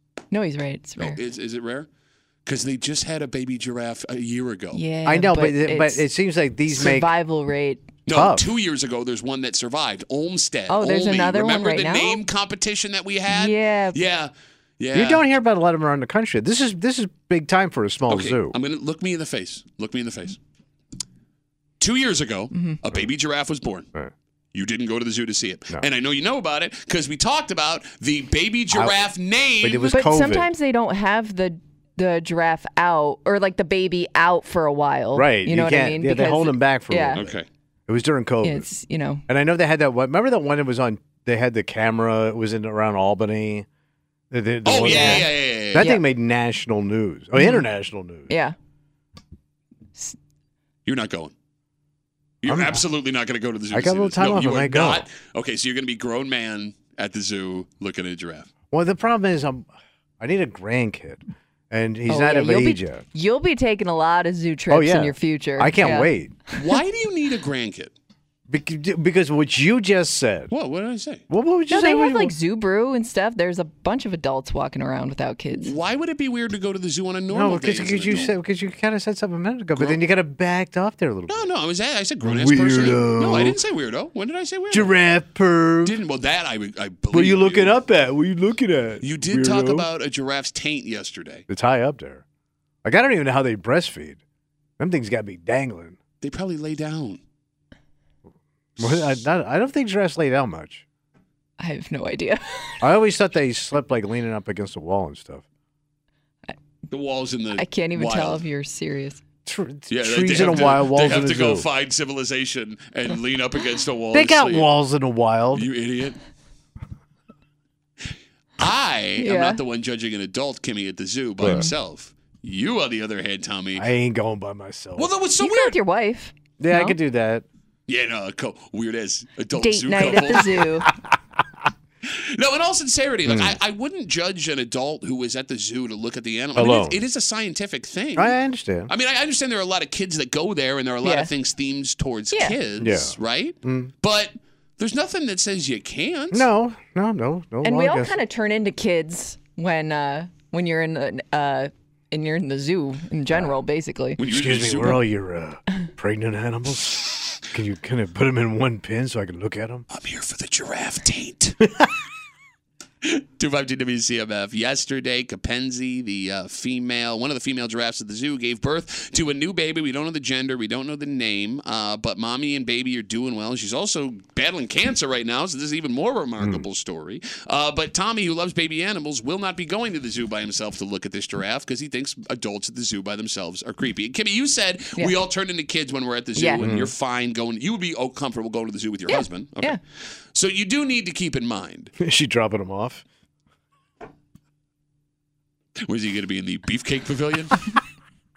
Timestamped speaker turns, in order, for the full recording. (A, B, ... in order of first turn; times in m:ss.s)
0:00.3-0:01.2 A
0:01.0-0:01.9 B
0:02.4-0:04.8 B
0:04.7-0:06.0 A
0:05.0-0:07.1 C
0:06.7-0:07.8 A
0:08.0-0:15.2 B
0:08.1-0:08.5 C
0:10.7-0:12.2 A
0:13.3-0:14.0 A
0:14.9-0:18.6 C
0:18.1-0:20.4 B
0:21.8-0:23.9 B
0:22.5-0:22.8 A
0:24.5-0:30.0 B
0:28.7-0:29.0 C
0:29.6-0:30.5 C
0:29.9-0:37.2 A
0:35.1-0:37.3 C
0:37.1-0:37.4 B
0:37.9-0:38.7 C
0:38.4-0:39.2 A
0:39.3-0:43.6 C
0:44.3-0:48.3 C
0:44.6-0:45.9 B
0:44.8-0:46.0 A
0:47.4-0:47.7 A
0:48.3-0:48.5 A
0:50.8-0:51.3 B
0:52.4-0:58.5 B
0:52.4-0:52.8 C
0:53.7-0:55.1 C
0:58.7-0:59.7 C
1:00.2-1:03.0 C
1:02.1-1:06.2 A
1:04.7-1:06.3 C
1:06.5-1:07.9 B
1:08.5-1:10.5 C
1:10.5-1:11.2 B
1:11.3-1:12.3 C
1:11.7-1:15.7 A
1:15.5-1:18.3 B
1:17.3-1:21.5 C
1:21.3-1:24.9 B
1:22.2-1:23.6 C
1:24.7-1:26.0 C
1:25.8-1:27.7 B
1:27.1-1:29.9 C
1:29.0-1:31.4 B
1:31.5-1:32.2 C
1:32.8-1:34.2 C
1:34.8-1:36.0 C
1:36.2-1:37.2 B
1:38.8-1:40.8 C
1:38.8-1:39.1 B
1:41.6-1:42.8 A
1:42.8-1:45.4 C
1:46.9-1:48.4 B
1:47.5-1:49.2 A
1:49.4-1:51.7 C
1:49.9-1:54.7 B
1:54.1-1:55.7 C
1:55.5-1:56.2 B
1:58.6-2:03.8 B
1:59.2-1:59.6 A
2:01.4-2:01.7 C
2:01.4-2:01.7 A
2:03.8-2:05.1 C
2:05.0-2:05.8 B
2:05.4-2:07.0 A
2:06.6-2:07.4 C
2:07.9-2:10.6 B
2:09.6-2:10.9 A
2:12.0-2:26.5 B
2:13.2-2:13.6 C
2:16.6-2:17.0 C
2:18.2-2:18.9 C
2:21.0-2:21.3 A
2:22.3-2:22.6 A
2:22.8-2:23.9 C
2:26.3-2:28.2 C
2:27.6-2:34.2 A
2:33.3-2:33.6 C
2:34.2-2:35.1 B
2:34.2-2:39.8 C
2:39.9-2:41.8 B
2:43.0-3:09.8 B
2:56.4-2:56.6 C
3:06.4-3:06.7 A
3:06.6-3:06.9 C
3:09.1-3:09.8 A
3:10.3-3:11.9 B
3:12.0-3:13.0 C
3:15.8-3:17.7 B